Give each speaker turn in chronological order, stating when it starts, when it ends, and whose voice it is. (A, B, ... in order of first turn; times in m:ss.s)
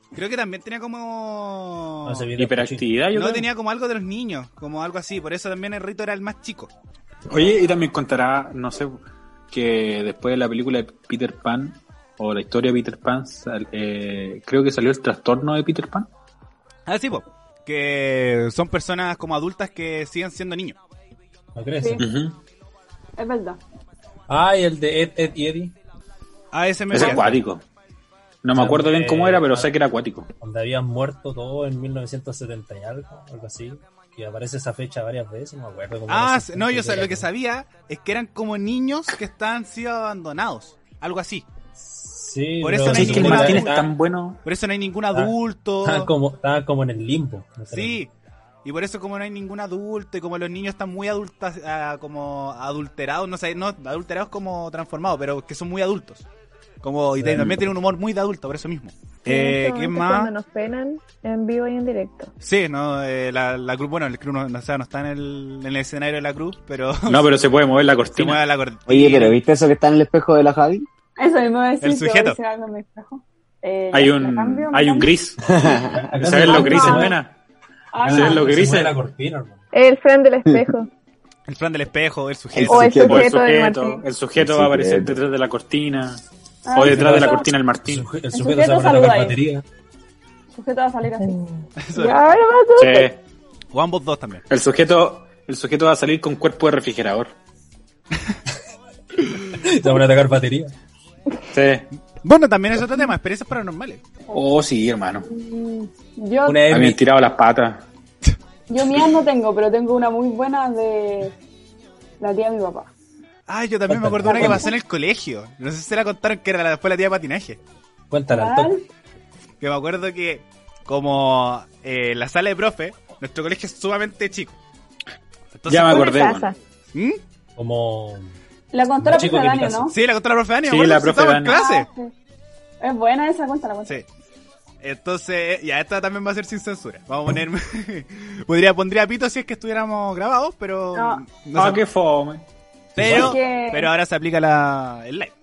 0:00.1-0:02.2 A
0:02.0-0:03.0 B
0:02.4-0:03.5 C
0:03.1-0:06.7 A
0:07.3-0:09.0 C
0:09.5-0:16.1 C
0:16.9-0:20.8 A
0:21.5-0:22.0 B
0:22.0-0:22.4 C
0:23.2-0:23.6 D
0:24.3-0:25.7 B
0:26.5-0:27.4 A
0:26.9-0:27.6 C
0:28.4-0:30.3 C
0:28.5-0:29.7 B
0:30.4-0:37.3 B
0:36.1-0:41.5 A
0:41.8-0:43.9 B
0:42.6-0:43.8 A
0:42.8-0:44.4 C
0:44.4-0:46.1 A
0:45.1-0:48.0 B
0:47.7-0:48.1 A
0:48.6-0:56.3 A
0:56.8-1:00.3 A
0:57.2-0:57.6 B
0:57.3-0:57.6 C
0:59.2-1:02.3 E
1:02.4-1:07.3 A
1:07.1-1:08.4 C
1:08.1-1:09.4 A
1:08.9-1:10.8 F
1:11.2-1:15.1 D
1:11.8-1:12.4 A
1:13.9-1:15.4 C
1:15.4-1:16.2 F
1:15.7-1:17.2 B
1:16.2-1:17.4 C
1:16.4-1:17.2 D
1:17.9-1:18.6 D
1:18.0-1:19.6 B
1:18.0-1:19.0 C
1:19.7-1:20.9 E
1:21.5-1:23.1 A
1:22.5-1:23.3 F
1:22.6-1:26.2 C
1:22.6-1:24.0 E
1:24.4-1:25.2 F
1:26.6-1:27.5 D
1:26.7-1:28.1 C
1:26.8-1:29.6 B
1:28.3-1:29.4 D
1:30.5-1:31.3 D
1:31.2-1:33.1 E
1:31.8-1:32.2 A
1:32.8-1:33.2 C
1:33.7-1:34.4 A
1:34.5-1:37.4 C
1:39.4-1:40.7 B
1:41.5-1:41.9 C
1:42.2-1:44.0 A
1:44.3-1:45.3 C
1:45.2-1:46.7 D
1:46.4-1:47.0 B
1:46.7-1:47.8 C
1:48.7-1:51.3 D
1:52.2-1:52.9 D
1:53.5-1:57.6 A
1:53.9-1:54.7 B
1:54.3-1:54.7 D
1:58.1-1:58.8 B
1:58.3-1:58.8 D
1:59.6-2:04.6 A
2:05.5-2:06.2 A
2:05.7-2:06.5 C
2:05.8-2:06.5 E
2:06.9-2:07.2 A
2:07.6-2:08.3 B
2:08.7-2:09.9 D
2:09.0-2:09.9 B
2:09.9-2:11.9 A
2:10.7-2:11.6 C
2:11.5-2:12.1 D
2:12.8-2:14.0 D
2:14.8-2:21.8 A
2:20.9-2:21.2 D
2:21.5-2:22.4 C
2:23.0-2:23.4 B
2:23.0-2:25.3 A
2:23.1-2:23.9 D